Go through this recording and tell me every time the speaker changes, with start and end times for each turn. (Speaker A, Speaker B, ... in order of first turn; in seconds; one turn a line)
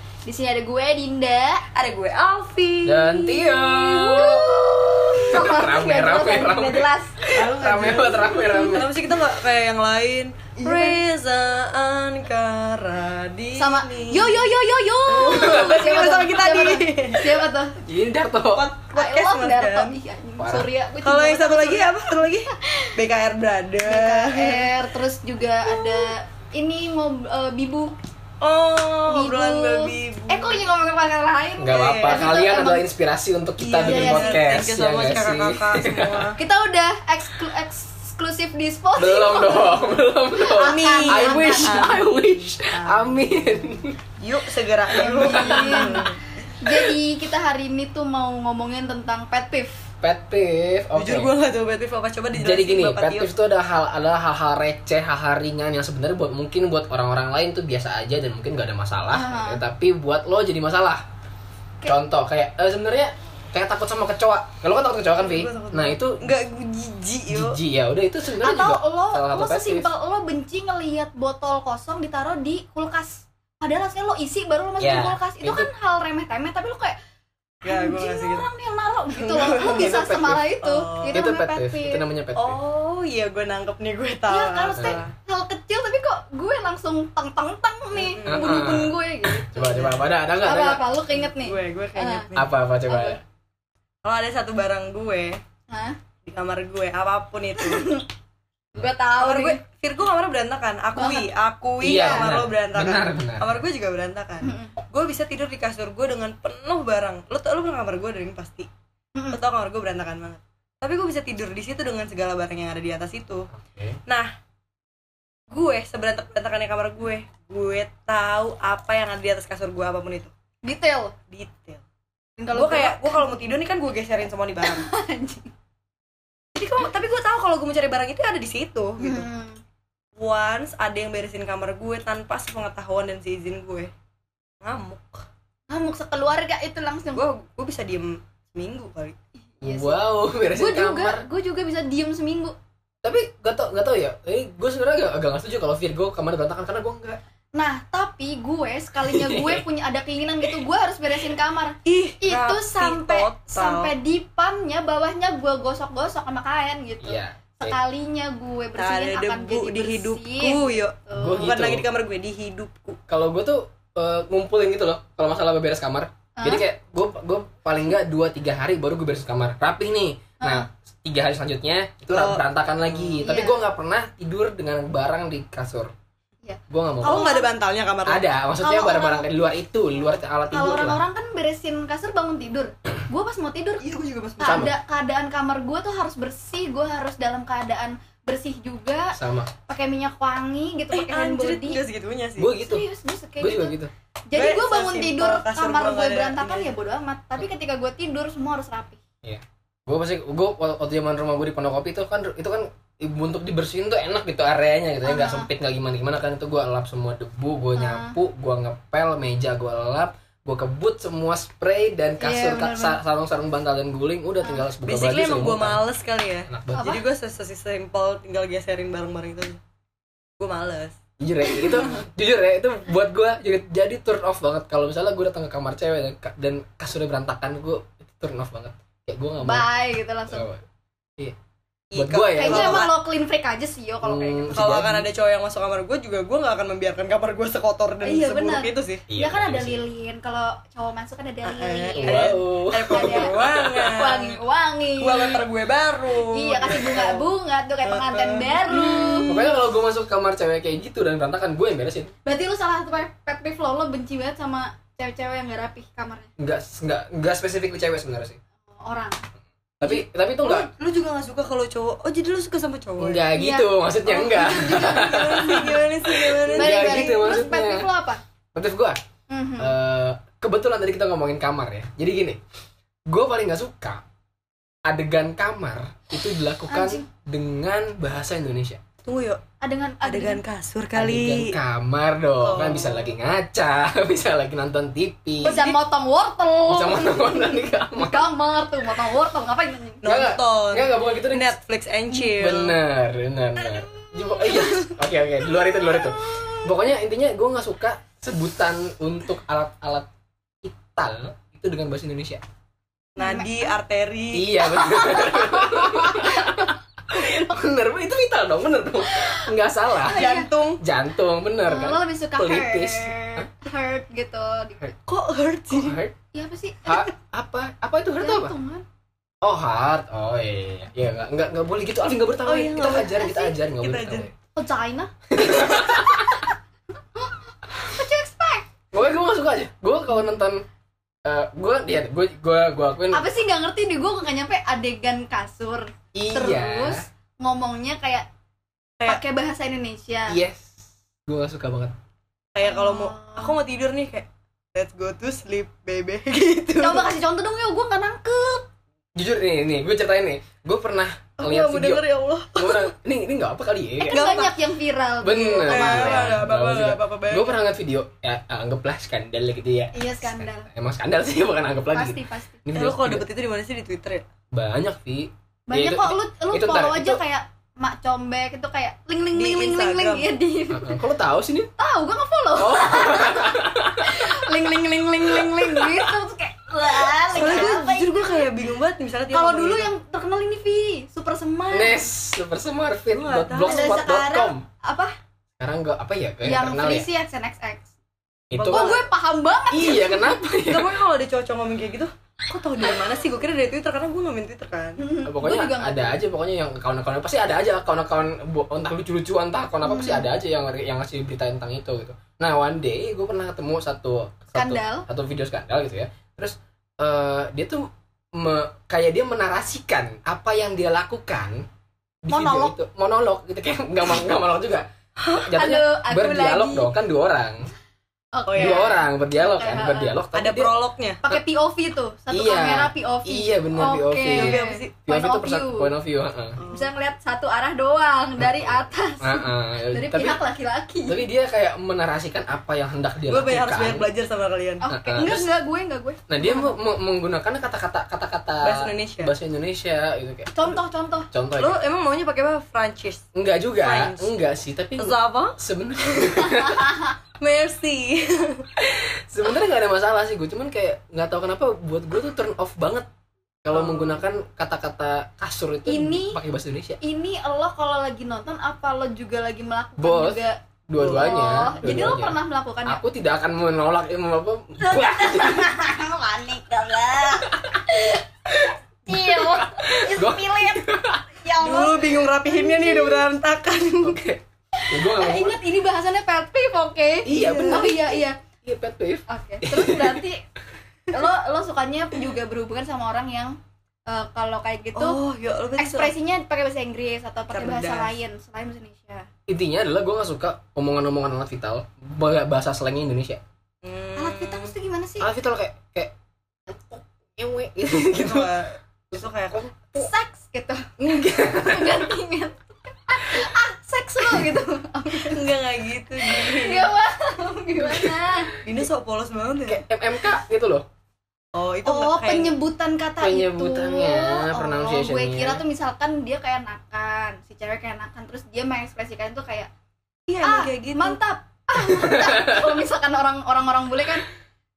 Speaker A: 0.2-1.6
Speaker B: 1.7-4.5
Speaker C: 2.8-9.2
Speaker A: 4.1-7.3
Speaker B: 7.3-14.4
Speaker A: 8.4-8.8
Speaker A: 10.6-11.0
Speaker A: 13.6-17.8
Speaker B: 15.1-17.4
Speaker C: 15.3-15.9
Speaker C: 17.8-18.7
Speaker B: 18.5-19.9
Speaker A: 18.9-21.9
Speaker C: 20.4-20.7
Speaker B: 21.0-24.8
Speaker A: 22.5-23.0
Speaker A: 23.8-27.9
Speaker B: 25.6-26.1
Speaker B: 28.4-30.6
Speaker A: 29.1-32.9
Speaker C: 31.6-36.3
Speaker B: 31.7-32.3
Speaker B: 33.6-36.4
Speaker A: 33.8-34.5
Speaker A: 36.4-42.0
Speaker C: 39.0-44.0
Speaker B: 40.6-46.2
Speaker A: 45.0-49.9
Speaker C: 45.1-46.0
Speaker C: 50.0-51.3
Speaker B: 51.0-53.3
Speaker C: 52.3-61.0
Speaker A: 59.1-59.6
Speaker C: 61.8-66.3
Speaker B: 65.2-67.6
Speaker C: 67.3-69.9
Speaker A: 68.4-77.0
Speaker C: 74.8-75.7
Speaker B: 77.6-78.5
Speaker A: 77.6-82.0
Speaker B: 79.2-79.9
Speaker C: 79.5-80.4
Speaker B: 80.6-81.3
Speaker C: 81.1-82.6
Speaker B: 82.3-85.1
Speaker A: 84.3-92.3
Speaker B: 87.9-88.7
Speaker C: 88.2-90.8
Speaker B: 91.2-92.5
Speaker C: 92.3-93.2
Speaker A: 92.8-93.2
Speaker B: 94.0-95.4
Speaker A: 95.7-96.0
Speaker B: 96.2-97.9
Speaker A: 97.6-98.1
Speaker A: 98.7-99.6
Speaker B: 99.2-108.7
Speaker A: 100.9-101.3
Speaker C: 101.8-103.6
Speaker A: 101.9-102.3
Speaker A: 104.4-104.7
Speaker A: 109.1-109.4
Speaker B: 109.3-113.5
Speaker C: 113.5-114.0
Speaker B: 115.5-120.3
Speaker A: 120.6-121.1
Speaker B: 121.3-121.8
Speaker A: 122.4-123.5
Speaker B: 122.5-124.9
Speaker A: 124.6-125.5
Speaker B: 126.5-129.2
Speaker A: 129.0-129.6
Speaker B: 130.2-133.9
Speaker B: 134.6-135.2
Speaker A: 135.7-137.2
Speaker B: 137.1-139.2
Speaker A: 139.6-139.9
Speaker C: 139.6-141.2
Speaker A: 140.5-142.5
Speaker C: 143.0-147.2
Speaker A: 147.5-161.5
Speaker C: 149.0-149.6
Speaker B: 151.8-153.9
Speaker C: 157.0-157.8
Speaker B: 158.8-163.0
Speaker C: 161.1-161.8
Speaker C: 163.1-175.9
Speaker A: 166.4-166.6
Speaker A: 170.4-170.7
Speaker B: 172.1-173.2
Speaker A: 173.2-173.6
Speaker A: 176.4-177.5
Speaker C: 176.7-177.3
Speaker B: 177.0-178.2
Speaker C: 178.1-181.0
Speaker A: 178.6-179.3
Speaker A: 180.5-183.8
Speaker B: 183.8-184.7
Speaker A: 184.4-191.8
Speaker C: 184.4-184.7
Speaker C: 189.1-189.5
Speaker B: 190.9-192.5
Speaker C: 192.4-192.8
Speaker A: 192.6-193.8
Speaker C: 193.4-193.9
Speaker A: 194.3-199.0
Speaker B: 194.3-196.7
Speaker C: 199.2-215.8
Speaker A: 205.0-205.5
Speaker A: 207.8-208.2
Speaker A: 212.2-213.0
Speaker B: 214.8-219.6
Speaker C: 216.5-216.9
Speaker A: 216.7-217.0
Speaker B: 220.4-221.0
Speaker C: 221.2-229.7
Speaker A: 229.4-230.4
Speaker C: 230.3-230.6
Speaker B: 231.9-232.9
Speaker C: 231.9-232.9
Speaker A: 232.4-234.6
Speaker C: 234.0-235.1
Speaker B: 234.5-239.0
Speaker A: 238.0-242.3
Speaker C: 239.1-239.8
Speaker B: 241.4-244.4
Speaker C: 242.0-243.8
Speaker A: 242.9-245.4
Speaker B: 245.0-247.3
Speaker A: 246.3-249.5
Speaker B: 247.8-249.4
Speaker C: 249.2-252.1
Speaker A: 252.2-256.3
Speaker C: 256.4-258.4
Speaker A: 258.7-259.2
Speaker C: 259.8-260.7
Speaker B: 260.4-263.2
Speaker C: 263.0-267.9
Speaker A: 263.4-265.7
Speaker B: 264.5-267.4
Speaker A: 266.5-268.2
Speaker C: 268.5-269.0
Speaker A: 269.3-269.7
Speaker C: 269.6-272.4
Speaker C: 273.1-274.0
Speaker C: 274.8-278.8
Speaker A: 276.7-277.1
Speaker B: 279.0-279.4
Speaker A: 279.6-280.4
Speaker B: 280.0-281.6
Speaker C: 280.9-285.6
Speaker B: 282.4-283.1
Speaker B: 285.4-285.8
Speaker A: 285.4-290.0
Speaker C: 286.7-288.3
Speaker B: 290.0-292.8
Speaker C: 290.0-291.6
Speaker C: 292.2-300.1
Speaker B: 294.5-294.9
Speaker C: 300.6-302.4
Speaker A: 303.2-303.7
Speaker B: 303.2-304.6
Speaker C: 304.3-310.2
Speaker A: 304.6-306.7
Speaker A: 310.0-310.5
Speaker B: 310.1-310.8
Speaker C: 310.8-313.5
Speaker A: 311.6-314.9
Speaker B: 315.1-316.0
Speaker C: 315.7-316.1
Speaker A: 316.3-317.0
Speaker C: 316.9-318.5
Speaker A: 318.2-318.8
Speaker C: 319.4-324.3
Speaker B: 322.4-324.3
Speaker A: 323.0-323.5
Speaker A: 324.6-326.5
Speaker C: 325.3-326.4
Speaker A: 327.1-328.7
Speaker C: 328.9-330.6
Speaker C: 331.2-333.2
Speaker A: 333.1-338.3
Speaker C: 336.1-337.0
Speaker A: 339.0-340.4
Speaker C: 340.3-341.9
Speaker B: 342.5-347.1
Speaker A: 342.6-343.6
Speaker A: 346.8-348.7
Speaker C: 349.1-352.0
Speaker B: 351.4-352.9
Speaker C: 352.5-354.2
Speaker A: 354.0-356.4
Speaker B: 354.1-354.6
Speaker C: 355.2-363.2
Speaker B: 355.6-357.5
Speaker A: 359.9-360.7
Speaker A: 361.9-362.6
Speaker B: 362.7-364.2
Speaker C: 364.5-367.2
Speaker A: 365.7-371.0
Speaker B: 369.3-370.3
Speaker C: 370.7-371.7
Speaker A: 371.8-378.4
Speaker C: 372.5-374.3
Speaker B: 377.3-379.9
Speaker C: 377.4-377.7
Speaker A: 379.3-382.1
Speaker C: 381.7-384.6
Speaker B: 383.1-384.0
Speaker A: 383.6-385.1
Speaker C: 385.6-387.1
Speaker A: 386.4-387.9
Speaker C: 388.5-389.0
Speaker B: 388.5-389.1
Speaker A: 388.7-390.3
Speaker C: 389.7-391.0
Speaker B: 390.7-395.0
Speaker A: 395.0-396.2
Speaker C: 395.2-411.6
Speaker A: 399.8-400.3
Speaker A: 404.5-405.1
Speaker C: 412.2-414.9
Speaker A: 412.3-412.7
Speaker B: 415.2-415.5
Speaker C: 415.4-417.7
Speaker A: 415.5-416.9
Speaker A: 418.3-420.2
Speaker B: 418.5-418.9
Speaker C: 418.6-420.7
Speaker B: 420.3-421.2
Speaker A: 421.2-425.9
Speaker C: 422.3-426.6
Speaker B: 424.3-424.9
Speaker B: 426.6-426.9
Speaker A: 426.7-431.2
Speaker C: 428.4-430.4
Speaker C: 431.1-434.1
Speaker B: 433.3-434.9
Speaker A: 434.8-436.2
Speaker C: 434.9-435.5
Speaker C: 436.3-440.8
Speaker B: 438.6-439.3
Speaker A: 440.5-441.3
Speaker C: 441.3-441.8
Speaker B: 441.6-443.2
Speaker C: 443.3-446.9
Speaker B: 443.8-444.3
Speaker B: 445.0-446.6
Speaker A: 446.5-447.1
Speaker B: 447.4-448.6
Speaker C: 448.8-453.1
Speaker C: 453.6-457.0
Speaker B: 453.7-454.2
Speaker A: 455.9-456.4
Speaker A: 457.0-463.0
Speaker C: 460.0-465.8
Speaker B: 461.0-461.6
Speaker A: 464.8-468.2
Speaker C: 467.4-467.8
Speaker C: 468.5-471.2
Speaker A: 469.1-473.2
Speaker B: 471.6-474.2
Speaker C: 474.0-475.6
Speaker A: 474.7-478.4
Speaker C: 477.2-480.2
Speaker B: 477.3-478.0
Speaker A: 479.3-480.4
Speaker A: 481.1-485.2
Speaker B: 484.9-486.1
Speaker A: 485.8-489.3
Speaker B: 487.5-488.1
Speaker C: 489.5-493.4
Speaker B: 493.8-494.7
Speaker A: 494.1-495.3
Speaker C: 495.2-496.1
Speaker C: 496.7-498.5
Speaker B: 498.1-499.6
Speaker C: 499.1-500.1
Speaker A: 499.9-505.5
Speaker C: 501.0-502.1
Speaker B: 505.2-506.9
Speaker A: 506.2-508.5
Speaker C: 507.8-508.1
Speaker B: 508.6-509.8
Speaker C: 509.7-510.9
Speaker B: 511.5-512.5
Speaker A: 511.8-519.7
Speaker C: 513.2-515.6
Speaker B: 520.3-521.2
Speaker A: 520.4-524.3
Speaker C: 521.8-522.8